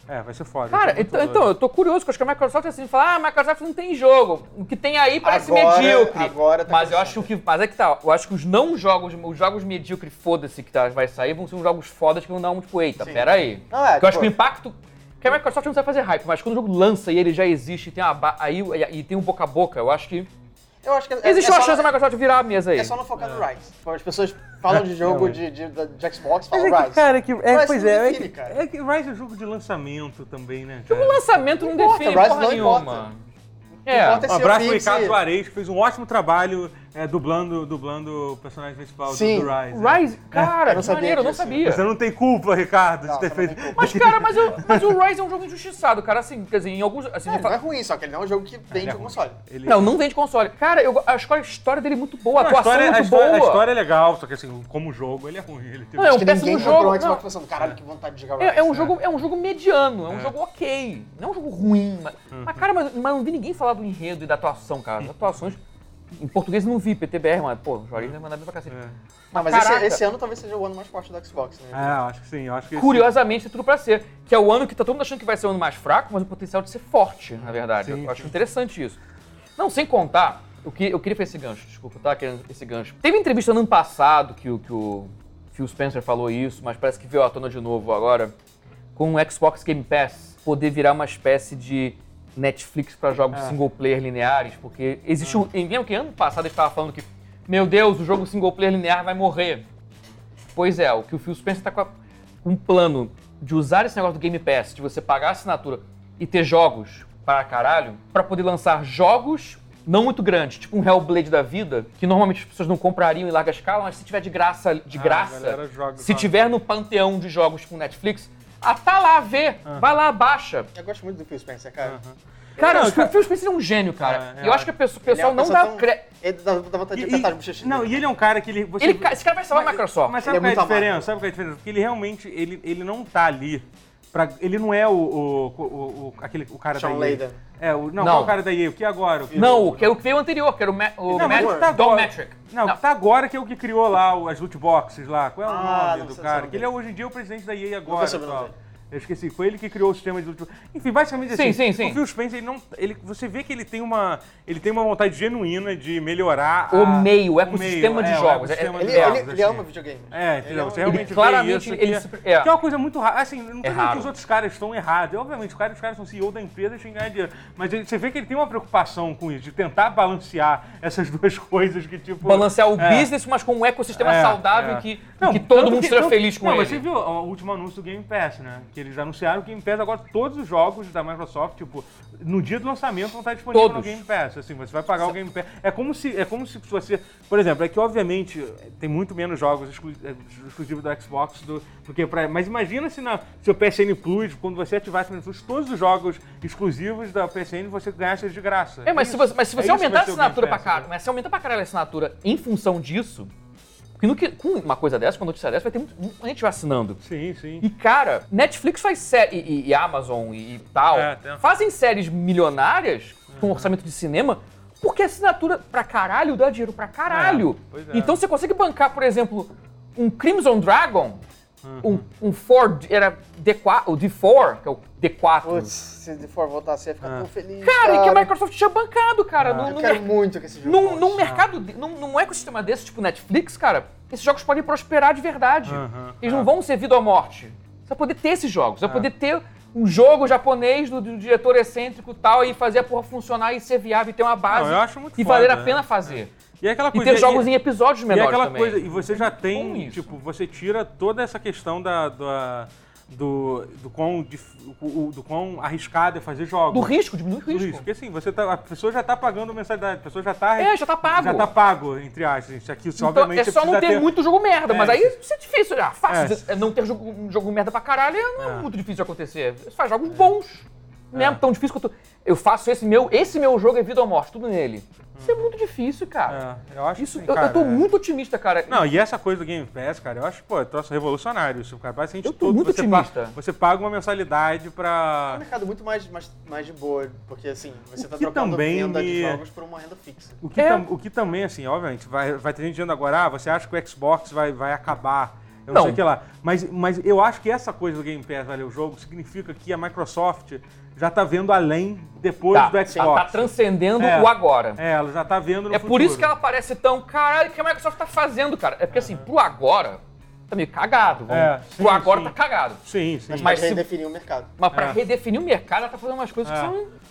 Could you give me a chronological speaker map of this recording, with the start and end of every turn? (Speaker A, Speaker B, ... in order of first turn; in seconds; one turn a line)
Speaker A: 0.1-1.5
Speaker B: 0.7-20.3
Speaker C: 5.2-7.3
Speaker C: 13.0-14.3
Speaker C: 20.8-22.0
Speaker B: 21.2-22.9
Speaker C: 22.7-28.6
Speaker A: 24.7-25.4
Speaker A: 26.5-31.2
Speaker B: 30.9-33.2
Speaker C: 31.6-33.1
Speaker C: 33.9-35.2
Speaker B: 33.9-34.2
Speaker A: 34.3-40.9
Speaker C: 39.1-39.5
Speaker B: 39.7-41.9
Speaker C: 40.7-41.6
Speaker A: 41.6-45.0
Speaker C: 43.0-44.6
Speaker B: 43.8-47.6
Speaker C: 47.3-49.4
Speaker A: 48.7-49.9
Speaker B: 49.6-53.6
Speaker A: 52.4-56.9
Speaker B: 56.0-57.2
Speaker C: 56.1-58.9
Speaker B: 58.4-65.6
Speaker A: 62.3-62.6
Speaker A: 65.0-65.5
Speaker B: 66.1-68.8
Speaker A: 68.7-69.0
Speaker B: 69.3-70.0
Speaker C: 69.3-72.0
Speaker A: 71.7-73.1
Speaker B: 72.7-79.0
Speaker A: 77.8-78.3
Speaker B: 79.6-88.3
Speaker B: 89.0-99.7
Speaker A: 95.2-95.5
Speaker B: 100.5-120.7
Speaker A: 114.9-116.3
Speaker C: 120.7-122.0
Speaker A: 121.8-123.2
Speaker B: 122.6-126.0
Speaker A: 124.0-124.7
Speaker C: 125.1-128.1
Speaker A: 126.9-140.0
Speaker B: 128.8-130.2
Speaker C: 130.2-131.1
Speaker C: 136.7-137.4
Speaker B: 138.0-138.4
Speaker C: 139.3-139.7
Speaker B: 139.3-142.8
Speaker C: 141.1-141.7
Speaker A: 141.1-173.1
Speaker C: 145.4-146.7
Speaker C: 147.9-148.5
Speaker B: 151.3-152.0
Speaker B: 156.7-159.2
Speaker C: 158.8-161.2
Speaker B: 160.8-162.5
Speaker B: 163.6-164.1
Speaker B: 172.2-176.8
Speaker A: 173.9-200.9
Speaker B: 183.5-184.0
Speaker B: 198.9-203.3
Speaker B: 204.0-207.0
Speaker A: 207.0-207.7
Speaker B: 207.6-221.2
Speaker A: 210.9-211.4
Speaker A: 213.3-213.7
Speaker A: 217.1-218.2
Speaker A: 221.6-222.0
Speaker B: 221.8-225.7
Speaker C: 225.4-228.3
Speaker B: 227.6-230.1
Speaker A: 229.4-229.7
Speaker C: 229.7-231.2
Speaker B: 230.6-246.3
Speaker A: 231.2-231.5
Speaker A: 235.7-236.5
Speaker A: 244.5-247.5
Speaker B: 246.9-250.1
Speaker A: 248.1-264.1
Speaker B: 256.7-257.9
Speaker B: 260.6-261.5
Speaker B: 263.0-276.4
Speaker A: 264.6-265.1
Speaker A: 266.1-266.4
Speaker A: 268.4-268.7
Speaker A: 271.1-271.4
Speaker A: 275.1-275.4
Speaker A: 276.3-277.9
Speaker B: 277.0-278.9
Speaker A: 278.7-285.4
Speaker B: 282.2-283.4
Speaker C: 285.3-290.4
Speaker A: 288.0-289.4
Speaker A: 290.4-306.3
Speaker B: 290.6-290.8
Speaker B: 295.7-296.0
Speaker B: 302.5-304.8
Speaker B: 305.7-312.8
Speaker A: 308.9-309.2
Speaker A: 311.3-313.6
Speaker C: 313.3-314.5
Speaker B: 313.3-313.9
Speaker B: 314.6-316.9
Speaker A: 314.7-315.0
Speaker A: 316.4-316.7